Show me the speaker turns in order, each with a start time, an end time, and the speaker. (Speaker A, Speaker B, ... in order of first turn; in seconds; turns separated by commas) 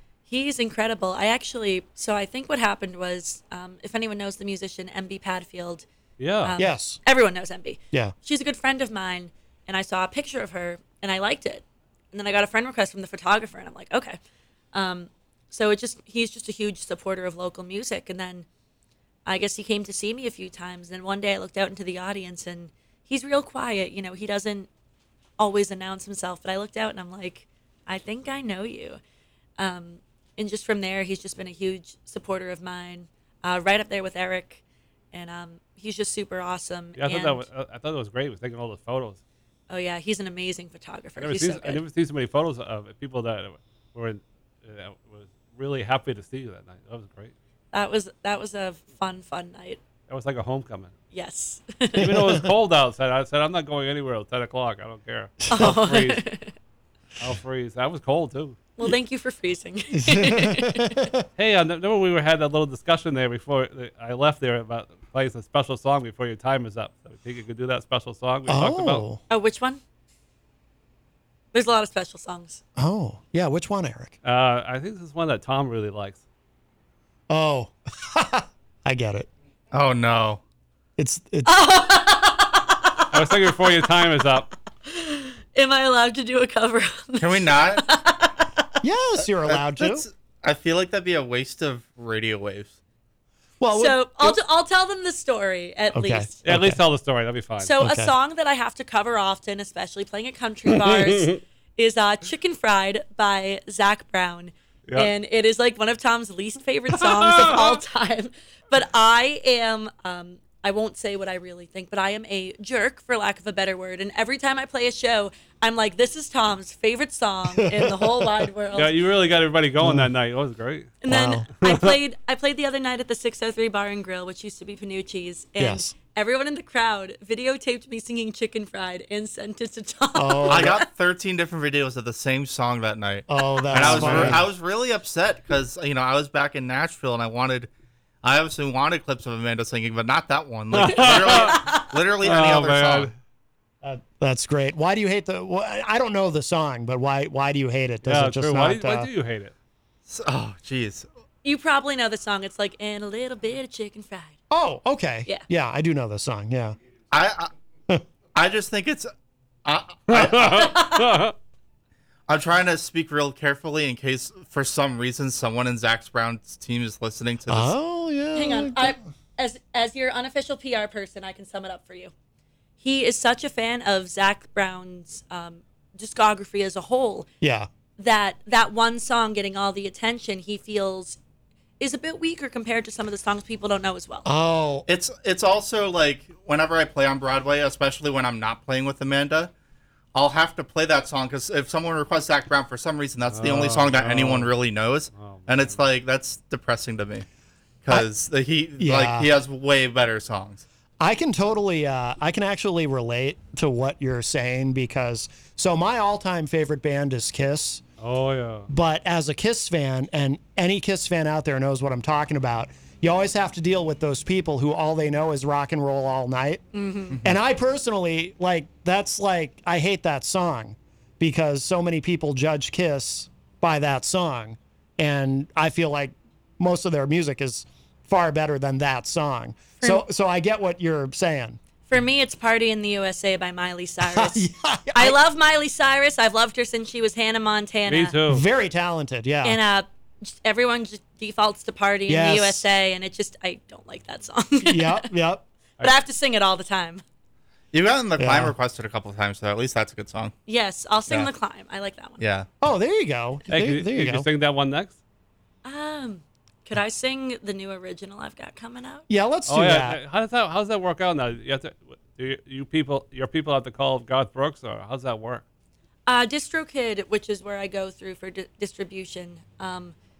Speaker A: 0.3-5.9, Speaker B: 6.2-6.5, Speaker A: 6.4-14.2, Speaker C: 6.6-7.0, Speaker A: 14.7-18.5, Speaker A: 19.3-24.7, Speaker A: 25.4-29.0, Speaker A: 29.6-34.6, Speaker A: 35.1-37.5, Speaker B: 37.0-39.2, Speaker A: 39.7-41.8, Speaker B: 41.2-47.3, Speaker A: 47.7-49.8, Speaker B: 50.1-50.9, Speaker A: 51.1-52.1, Speaker B: 52.0-56.2, Speaker C: 52.0-52.5, Speaker C: 55.5-55.8, Speaker A: 55.5-56.5, Speaker B: 57.2-58.6, Speaker A: 58.8-61.1, Speaker C: 59.9-61.3, Speaker B: 61.4-69.0, Speaker C: 68.5-69.2, Speaker A: 69.3-69.8, Speaker A: 71.5-72.6, Speaker C: 72.8-74.2, Speaker B: 74.2-76.2, Speaker C: 77.3-79.3, Speaker D: 79.7-80.4, Speaker C: 81.0-81.5, Speaker A: 81.5-83.1, Speaker B: 83.1-84.5, Speaker A: 84.9-88.6, Speaker D: 87.2-87.9, Speaker C: 88.8-90.0, Speaker D: 89.5-92.8, Speaker C: 93.6-94.4, Speaker A: 93.8-96.4, Speaker C: 95.9-96.8, Speaker B: 96.5-97.7, Speaker A: 97.6-118.9, Speaker C: 97.8-98.1, Speaker B: 100.8-101.4, Speaker B: 107.0-107.8, Speaker C: 117.6-118.4, Speaker B: 118.8-121.0, Speaker C: 119.8-120.1, Speaker A: 121.0-130.8, Speaker C: 121.1-121.5, Speaker B: 121.6-121.9, Speaker C: 125.6-125.9, Speaker C: 130.2-130.8, Speaker D: 130.5-137.7, Speaker C: 133.3-134.4, Speaker B: 133.8-134.4, Speaker D: 138.2-143.1, Speaker B: 140.7-141.6, Speaker A: 141.1-141.9, Speaker B: 142.2-143.1, Speaker C: 143.8-149.1, Speaker B: 148.1-149.5, Speaker D: 150.1-151.1, Speaker A: 151.4-154.3, Speaker C: 154.5-156.8, Speaker D: 157.1-157.5, Speaker D: 158.3-159.1, Speaker D: 159.7-160.9, Speaker B: 160.1-161.3, Speaker A: 160.5-161.2, Speaker D: 162.3-167.7, Speaker C: 167.5-169.0, Speaker A: 168.3-172.1, Speaker A: 172.8-177.3, Speaker C: 177.4-177.7, Speaker A: 178.0-181.2, Speaker A: 181.8-184.3, Speaker C: 184.3-184.9, Speaker D: 184.9-189.5, Speaker D: 190.2-197.3, Speaker B: 193.3-194.5, Speaker B: 195.1-195.8, Speaker D: 197.8-200.7, Speaker C: 198.8-199.3, Speaker C: 201.0-207.8, Speaker B: 208.0-208.7, Speaker C: 208.7-216.6, Speaker A: 216.7-217.2, Speaker C: 217.2-231.6, Speaker A: 229.8-230.1, Speaker A: 231.9-238.2, Speaker C: 234.0-235.2, Speaker B: 237.9-238.4, Speaker C: 238.3-239.6, Speaker A: 239.4-245.1, Speaker C: 242.1-242.7, Speaker C: 244.6-245.4, Speaker A: 245.8-247.0, Speaker D: 247.7-250.3, Speaker C: 248.2-248.6, Speaker A: 250.5-252.2, Speaker D: 252.2-252.5, Speaker C: 252.6-254.3, Speaker B: 253.5-255.0, Speaker A: 255.7-259.1, Speaker C: 259.1-260.0, Speaker B: 259.5-265.4, Speaker A: 266.1-269.9